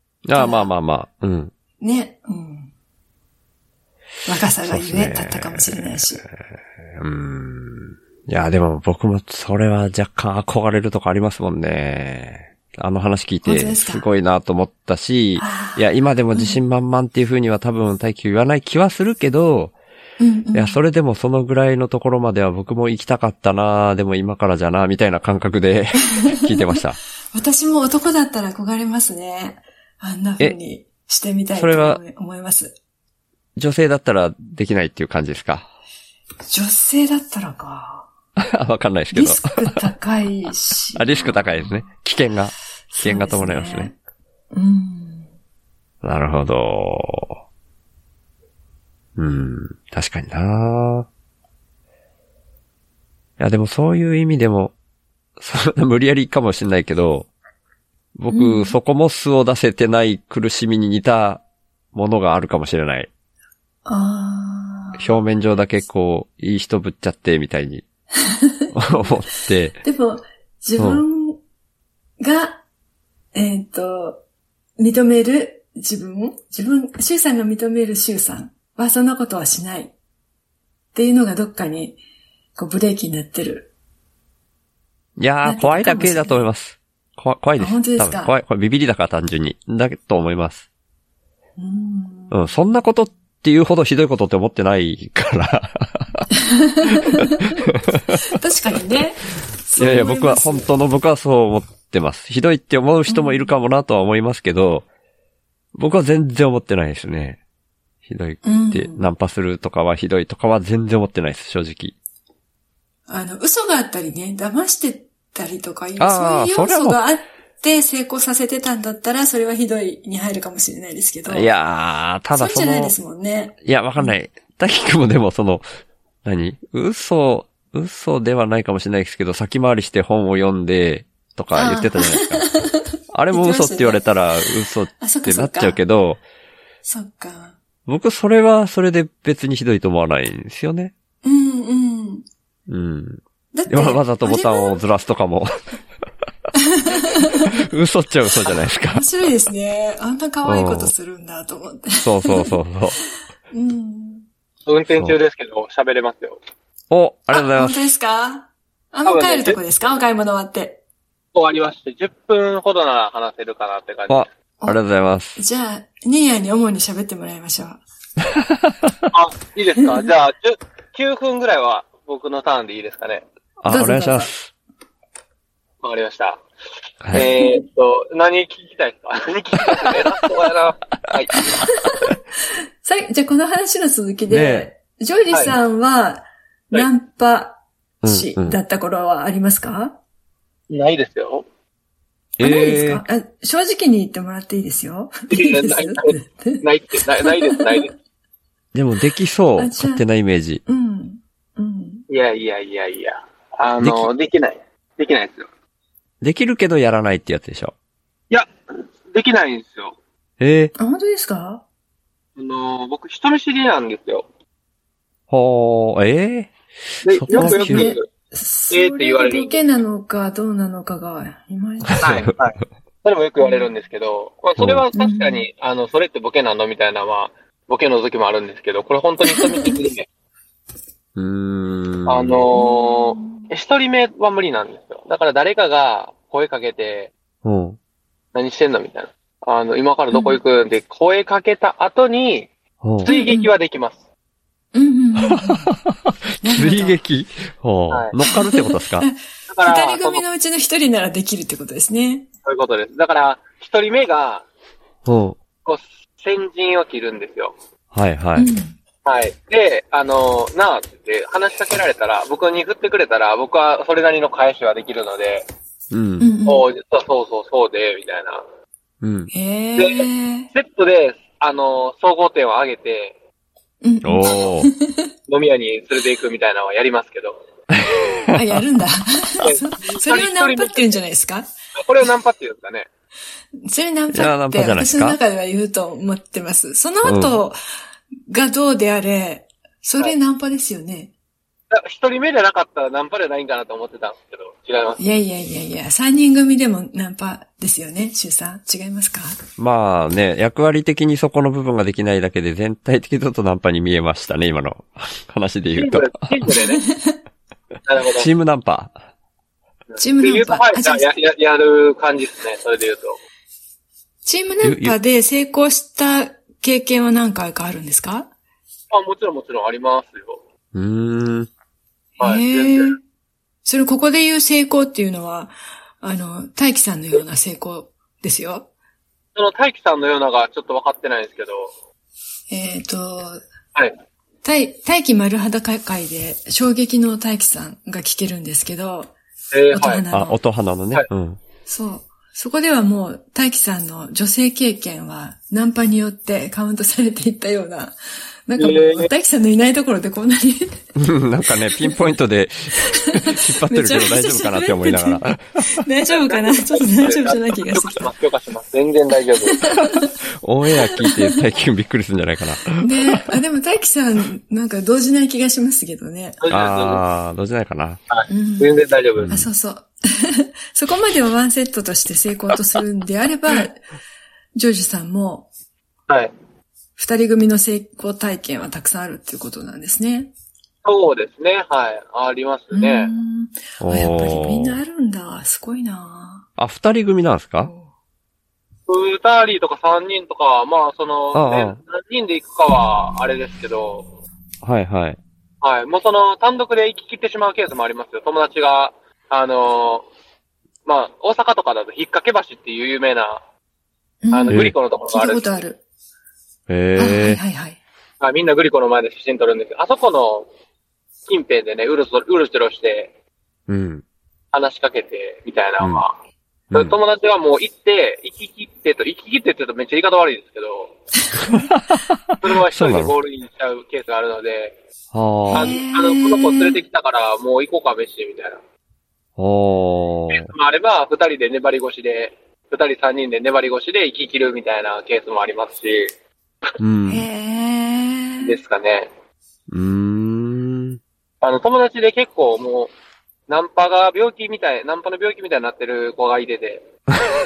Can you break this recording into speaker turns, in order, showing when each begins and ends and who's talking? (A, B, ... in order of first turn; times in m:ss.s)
0:00.2-0:01.5 A
0:00.3-0:00.7 B
0:01.8-0:02.7 B
0:04.2-0:06.2 B
0:04.6-0:19.7 A
0:13.4-0:14.1 B
0:15.4-0:16.6 B
0:20.2-0:20.8 B
0:20.5-0:27.0 A
0:27.3-0:32.7 B
0:31.6-0:32.0 A
0:33.6-0:35.7 A
0:36.5-0:38.1 B
0:38.4-0:39.6 A
0:39.1-0:41.9 B
0:40.9-0:43.9 A
0:42.9-0:44.0 B
0:44.5-0:45.3 B
0:46.0-0:47.4 A
0:49.2-0:51.1 A
0:53.4-0:54.7 A
0:55.4-0:57.3 A
0:58.2-1:01.4 A
0:58.3-0:58.8 B
1:01.9-1:03.1 A
1:03.8-1:05.2 B
1:05.0-1:07.8 A
1:08.4-1:09.1 B
1:08.7-1:09.8 A
1:09.8-1:11.4 B
1:12.2-1:12.6 B
1:13.3-1:14.2 B
1:14.8-1:19.9 B
1:20.9-1:22.0 B
1:22.6-1:23.7 B
1:25.2-1:30.6 A
1:25.4-1:26.5 B
1:27.6-1:28.4 B
1:31.6-1:32.5 B
1:32.3-1:36.3 A
1:36.4-1:40.7 B
1:37.8-1:38.2 A
1:39.8-1:44.8 A
1:43.1-1:43.5 B
1:45.7-1:47.4 A
1:48.0-1:51.9 A
1:48.4-1:49.1 B
1:53.1-2:01.5 B
1:56.0-1:57.0 A
2:01.3-2:02.9 A
2:02.3-2:04.1 B
2:03.6-2:05.6 A
2:06.2-2:12.4 A
2:11.5-2:15.8 B
2:13.1-2:16.2 A
2:16.8-2:17.6 B
2:17.9-2:20.9 A
2:21.2-2:22.2 B
2:22.7-2:25.5 A
2:23.5-2:24.8 B
2:26.6-2:27.6 B
2:27.5-2:29.0 A
2:28.8-2:32.5 B
2:30.4-2:30.9 A
2:32.0-2:33.0 A
2:33.5-2:34.2 B
2:34.7-2:36.4 C
2:36.9-2:37.8 A
2:37.3-2:40.8 B
2:39.0-2:39.6 C
2:41.3-2:44.3 C
2:44.1-2:45.4 A
2:45.3-2:47.8 B
2:48.3-2:48.9 A
2:49.1-2:53.2 C
2:53.6-2:54.5 A
2:53.7-2:54.3 B
2:55.8-2:56.4 C
2:57.1-3:01.6 C
2:57.1-2:57.6 B
3:01.6-3:02.2 B
3:02.8-3:10.0 B
3:04.3-3:04.7 A
3:08.0-3:08.6 A
3:10.7-3:11.4 C
3:12.4-3:13.0 A
3:12.4-3:16.6 B
3:15.3-3:17.9 C
3:17.2-3:17.8 B
3:18.7-3:20.6 A
3:19.6-3:20.0 B
3:20.6-3:22.0 B
3:22.1-3:25.5 C
3:23.8-3:24.1 A
3:26.2-3:27.7 A
3:29.1-3:30.0 C
3:30.4-3:30.7 A
3:30.8-3:31.6 B
3:32.4-3:34.3 C
3:35.3-3:36.5 A
3:37.0-3:38.0 C
3:37.1-3:37.9 A
3:37.3-3:42.2 B
3:38.7-3:39.6 C
3:42.0-3:50.1 C
3:43.4-3:43.7 B
3:44.6-3:44.8 A
3:44.9-3:45.4 B
3:49.3-3:49.7 B
3:51.2-3:52.4 A
3:52.0-3:57.1 C
3:52.5-3:53.5 B
3:57.4-3:57.8 A
3:58.3-4:02.5 C
4:00.1-4:00.4 B
4:02.8-4:03.1 A
4:03.0-4:04.0 C
4:03.0-4:03.5 B
4:04.7-4:05.7 B
4:05.3-4:09.1 A
4:06.4-4:07.0 B
4:08.2-4:12.3 B
4:09.5-4:10.2 C
4:12.4-4:14.4 C
4:15.0-4:15.4 A
4:15.6-4:17.6 C
4:17.9-4:18.5 A
4:18.4-4:18.8 B
4:19.0-4:25.5 C
4:25.9-4:26.3 A
4:26.2-4:26.6 B
4:26.4-4:28.4 C
4:29.0-4:29.3 A
4:29.3-4:30.5 B
4:29.8-4:33.2 C
4:33.8-4:35.1 B
4:34.0-4:34.7 A
4:35.3-4:37.4 C
4:37.7-4:38.3 A
4:38.3-4:41.5 B
4:39.4-4:41.0 C
4:41.7-4:42.9 C
4:43.6-4:47.6 B
4:44.1-4:45.2 A
4:47.0-4:47.4 A
4:48.3-4:51.1 B
4:51.7-4:55.0 C
4:55.0-4:59.4 B
4:59.6-5:06.3 A
5:05.7-5:06.8 C
5:06.5-5:07.2 B
5:07.8-5:08.3 C
5:08.2-5:08.9 A
5:09.9-5:13.2 C
5:10.0-5:11.1 B
5:14.2-5:18.3 B
5:14.6-5:15.0 A
5:18.9-5:20.4 C
5:20.7-5:21.5 A
5:22.2-5:23.0 C
5:22.2-5:23.0 B
5:23.6-5:28.7 B
5:29.3-5:31.7 C
5:32.5-5:33.4 B
5:34.4-5:39.1 B
5:39.5-5:40.0 C
5:39.7-5:40.4 B
5:40.1-5:41.4 A
5:41.6-5:48.0 B
5:48.5-5:50.8 B
5:48.6-5:49.1 C
5:51.0-5:55.4 A
5:52.9-5:58.1 B
5:56.1-5:59.6 C
5:59.5-6:00.1 B
6:00.4-6:02.8 A
6:02.8-6:06.4 B
6:06.4-6:07.0 C
6:06.5-6:08.0 A
6:08.1-6:09.3 C
6:08.3-6:08.7 B
6:09.1-6:09.5 A
6:09.3-6:13.8 B
6:14.6-6:15.5 B
6:17.0-6:20.3 B
6:20.8-6:23.1 C
6:22.7-6:26.5 B
6:23.8-6:24.8 A
6:26.6-6:27.7 A
6:27.6-6:27.9 B
6:28.9-6:34.1 C
6:31.3-6:31.8 A
6:34.6-6:35.2 A
6:35.6-6:40.0 C
6:40.8-6:43.4 C
6:44.2-6:45.8 B
6:44.3-6:45.5 C
6:44.5-6:44.7 A
6:46.7-6:47.4 A
6:47.0-6:47.8 B
6:48.2-6:50.5 C
6:51.3-6:53.1 C
6:53.7-6:54.0 A
6:54.5-6:56.2 C
6:56.7-6:57.0 A
6:56.7-7:01.0 C
7:01.4-7:03.1 A
7:02.4-7:04.8 C
7:05.1-7:05.8 A
7:05.5-7:06.8 B
7:05.5-7:08.6 C
7:09.4-7:10.5 A
7:10.3-7:16.1 C
7:16.8-7:17.3 A
7:17.1-7:18.6 B
7:18.4-7:19.1 C
7:19.7-7:21.0 A
7:21.4-7:22.9 C
7:23.5-7:26.9 C